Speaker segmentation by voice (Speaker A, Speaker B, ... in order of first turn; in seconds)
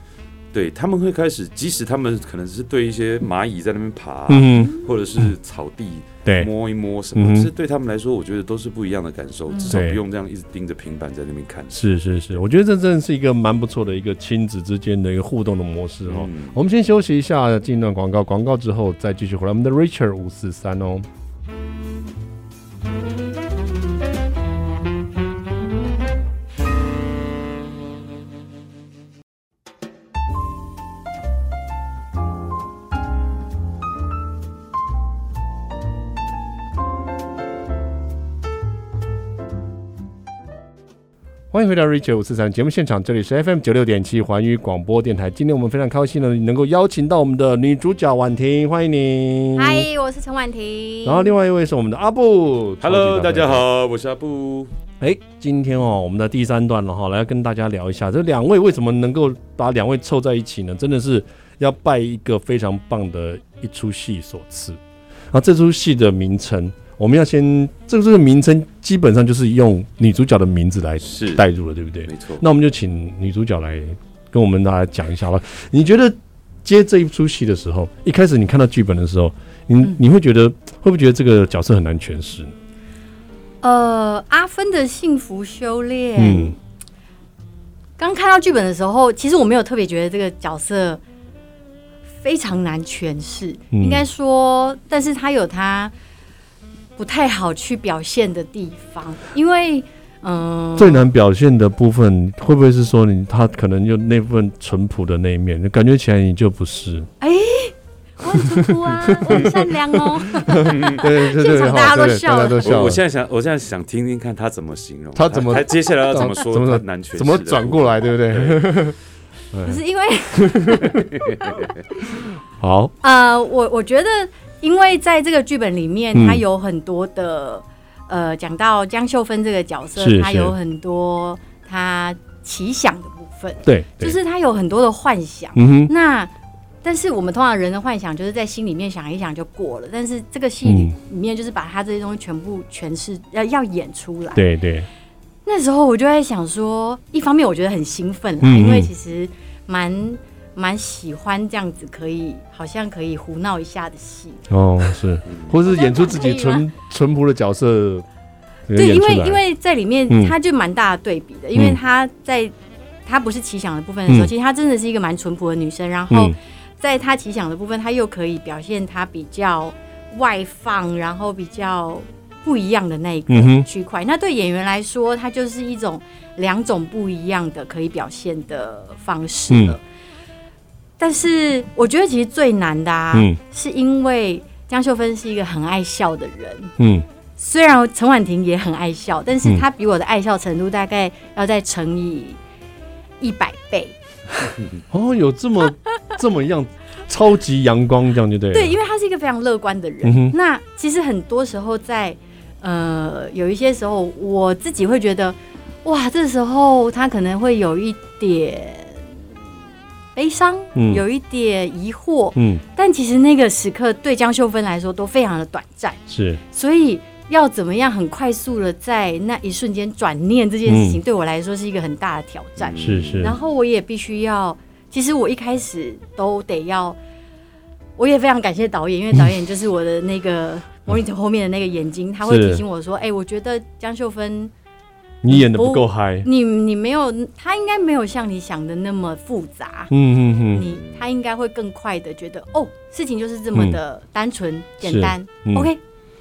Speaker A: 0.5-11.8, 16.1-16.6, 52.8-54.7, 71.0-71.4, 72.1-72.4, 110.6-111.1, 112.6-118.7, 121.0-121.7, 155.2-155.6, 222.6-223.3, 240.6-241.1
Speaker B: 4.3-5.3, 7.1-7.5, 9.7-10.0, 11.7-21.1, 41.5-49.9, 51.0-53.6, 55.0-64.8, 65.3-82.5, 86.2-86.5, 93.7-94.0, 100.8-107.1, 108.4-109.7, 110.5-113.0, 115.1-119.0, 119.5-119.8, 120.3-121.1, 122.6-122.9, 126.1-126.4, 130.0-130.5, 133.6-134.2, 135.5-135.9, 140.6-140.9, 144.3-144.9, 148.4-148.9, 154.5-158.1, 158.7-159.4, 160.1-160.3, 164.1-164.3, 173.3-173.7, 179.5-179.8, 183.1-183.4, 186.8-187.1, 194.9-198.8, 200.0-200.3, 210.7-211.0, 212.3-212.6, 216.1-216.4, 220.7-221.0, 222.8-223.3, 232.2-232.6, 235.2-236.3, 239.9-240.7, 244.8-245.7
Speaker C: 4.6-4.9, 49.5-51.3, 83.6-86.6, 88.0-91.0, 92.2-95.9, 97.0-101.0, 107.2-112.8, 119.6-121.7, 123.0-136.3, 136.8-144.4, 145.4-154.4, 155.7-156.7, 158.7-162.5, 163.1-179.8, 181.0-186.7, 187.4-192.4, 193.2-193.9, 198.5-209.1, 210.2-227.0, 228.0-234.5, 235.3-239.9, 240.5-245.8